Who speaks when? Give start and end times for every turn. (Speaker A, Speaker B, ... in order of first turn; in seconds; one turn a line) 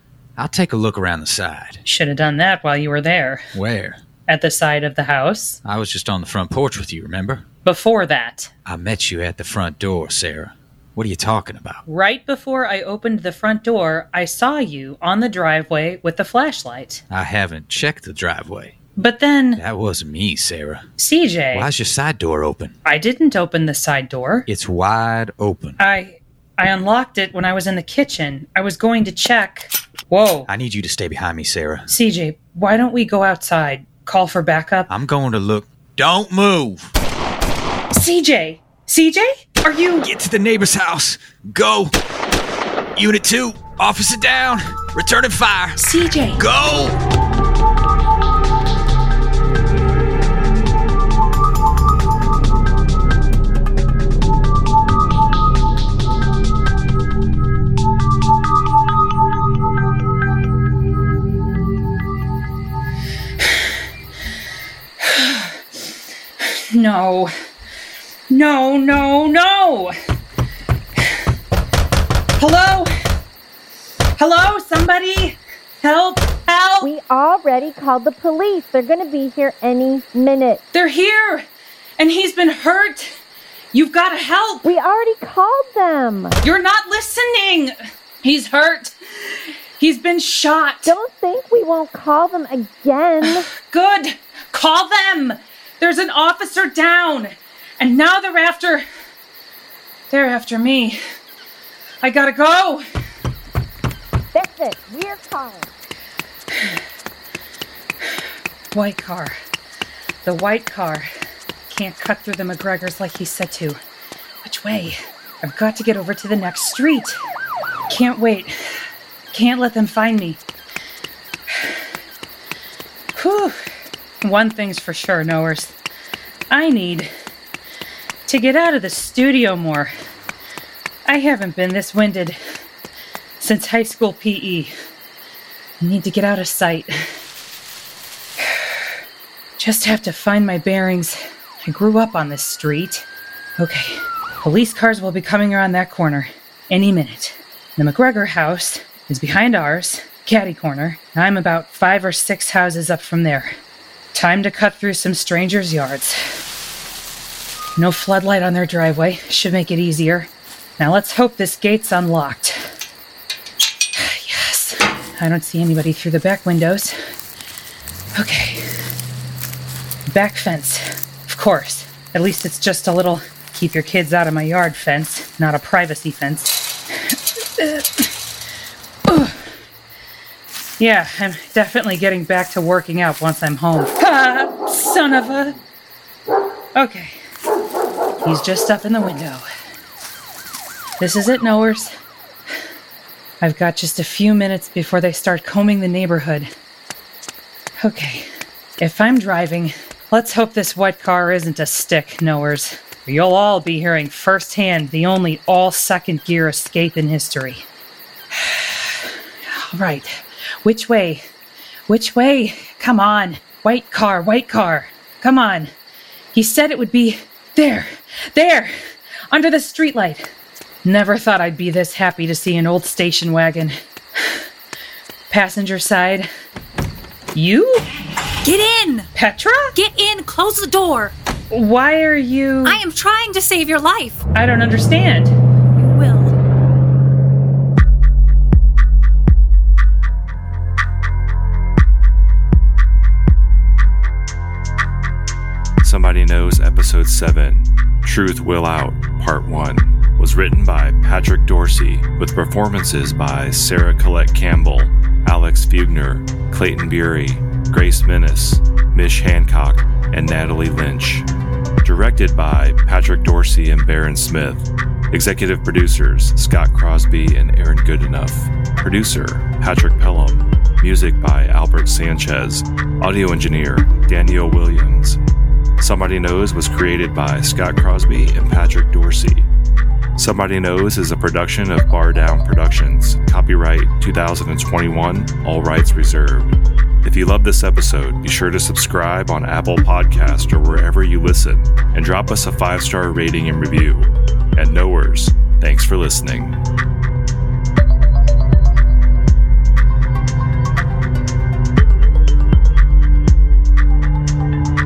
Speaker A: 0.4-1.8
Speaker B: 1.9-3.4
Speaker A: 3.5-4.0
Speaker B: 4.3-5.6
Speaker A: 5.6-7.4
Speaker B: 7.7-8.5
Speaker A: 8.7-11.8
Speaker B: 11.9-17.0
Speaker A: 17.1-18.8
Speaker B: 19.0-19.6
Speaker A: 19.6-20.8
Speaker B: 21.0-21.7
Speaker A: 21.5-22.8
Speaker B: 22.9-24.5
Speaker A: 24.5-25.8
Speaker B: 25.8-30.5
Speaker A: 30.5-31.9
Speaker B: 31.9-34.9
Speaker A: 34.9-36.9
Speaker B: 37.9-40.1
Speaker A: 40.0-42.0
Speaker A: 43.0-47.0
Speaker B: 45.8-46.5
Speaker B: 65.0-65.6
Speaker B: 66.4-67.3
Speaker B: 68.3-69.9
Speaker B: 72.4-72.9
Speaker B: 74.2-76.9
Speaker C: 76.8-80.6
Speaker B: 80.7-81.5
Speaker B: 82.0-83.1
Speaker B: 83.7-84.7
Speaker C: 84.6-86.4
Speaker B: 86.4-91.0
Speaker C: 90.8-93.5
Speaker B: 93.2-98.8
Speaker B: 100.1-101.0
Speaker B: 102.0-102.8
Speaker C: 104.3-105.7
Speaker B: 108.7-109.3
Speaker B: 110.2-111.1
Speaker B: 111.7-113.8
Speaker B: 114.4-117.2
Speaker B: 117.9-118.5
Speaker B: 119.3-120.4
Speaker B: 121.5-121.8
Speaker B: 123.2-123.6
Speaker B: 124.2-125.8
Speaker B: 126.5-127.1
Speaker B: 128.3-129.9
Speaker B: 131.1-132.4
Speaker B: 133.4-134.7
Speaker B: 135.8-136.9
Speaker B: 139.6-143.1
Speaker B: 143.6-153.5
Speaker B: 154.1-156.2
Speaker B: 157.8-162.6
Speaker B: 163.9-167.0
Speaker B: 168.2-168.7
Speaker B: 170.1-178.1
Speaker B: 179.1-179.4
Speaker B: 180.8-185.6
Speaker B: 186.8-187.2
Speaker B: 188.2-189.4
Speaker B: 191.0-191.9
Speaker B: 193.4-196.5
Speaker B: 197.8-198.3
Speaker B: 198.8-207.7
Speaker B: 208.3-210.1
Speaker B: 210.6-211.2
Speaker B: 211.9-215.7
Speaker B: 216.3-218.7
Speaker B: 219.3-220.3
Speaker B: 220.8-224.4
Speaker B: 225.3-226.3
Speaker B: 227.3-227.9
Speaker D: 228.4-229.1
Speaker B: 229.1-229.7
Speaker D: 229.8-231.1
Speaker B: 231.5-232.8
Speaker D: 232.6-234.2
Speaker B: 234.3-235.3
Speaker D: 235.8-236.3
Speaker E: 245.8-261.3
Speaker E: 261.8-275.2
Speaker E: 275.8-279.5
Speaker E: 280.2-296.6